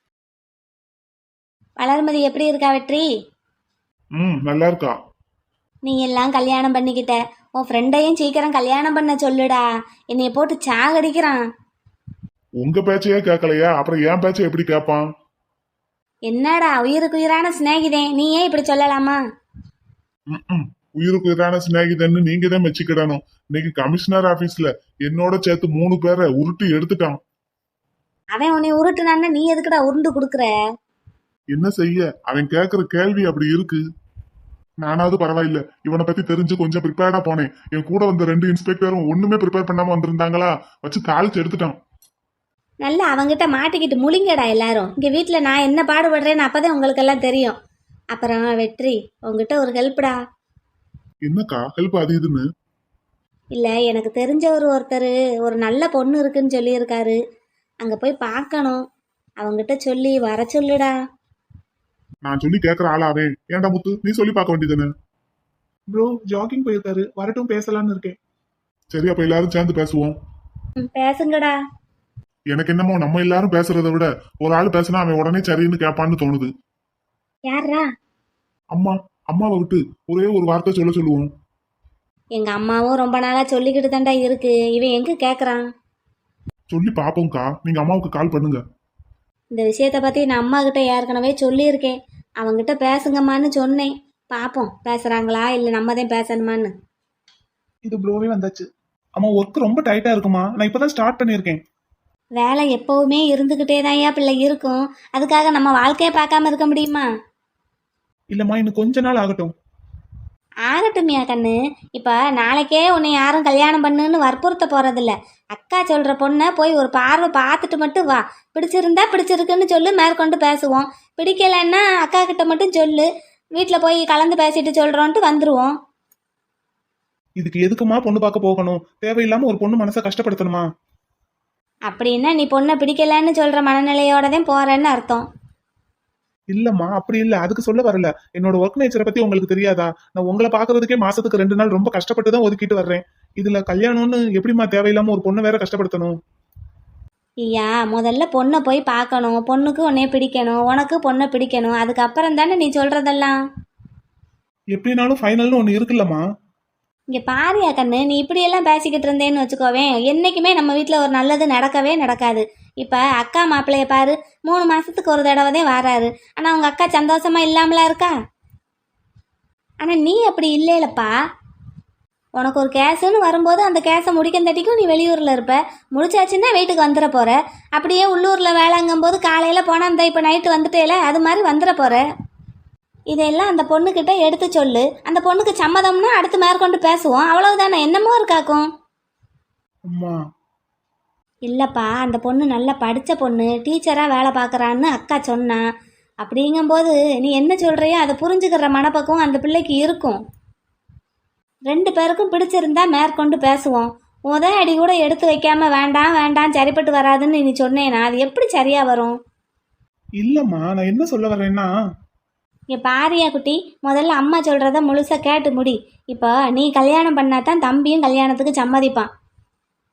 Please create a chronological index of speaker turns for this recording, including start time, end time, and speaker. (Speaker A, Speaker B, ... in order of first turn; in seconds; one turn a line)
Speaker A: 1.8-3.1
Speaker B: 4.2-5.0
Speaker A: 5.9-11.4
Speaker B: 12.6-15.0
Speaker A: 16.3-19.2
Speaker B: 20.3-27.2
Speaker A: 28.3-30.5
Speaker B: 31.5-33.8
Speaker B: 34.8-41.8
Speaker A: 42.8-47.6
Speaker A: 48.1-50.2
Speaker B: 51.3-52.4
Speaker A: 53.5-57.2
Speaker A: 57.8-58.8
Speaker A: 59.4-60.9
Speaker B: 62.2-64.9
Speaker C: 65.9-68.2
Speaker B: 68.9-70.2
Speaker A: 70.8-71.6
Speaker B: 72.5-76.5
Speaker A: 77.5-77.9
Speaker B: 78.7-81.3
Speaker A: 82.4-85.6
Speaker B: 86.7-88.6
Speaker A: 89.5-96.7
Speaker C: 97.8-101.6
Speaker A: 102.4-107.1
Speaker C: 108.3-109.5
Speaker A: 110.7-125.8
Speaker C: 127.4-130.7
Speaker A: 131.9-135.2
Speaker C: 136.5-146.2
Speaker A: 147.4-153.3
Speaker C: 154.7-156.2
Speaker A: 157.1-168.2
Speaker A: 169.8-171.1
Speaker A: 172.4-182.0
Speaker A: 183.1-188.7
Speaker C: 189.9-190.2
Speaker A: 191.5-195.6
Speaker A: 196.2-200.2
Speaker A: 201.7-209.2
Speaker C: 210.2-211.7
Speaker A: 212.7-219.1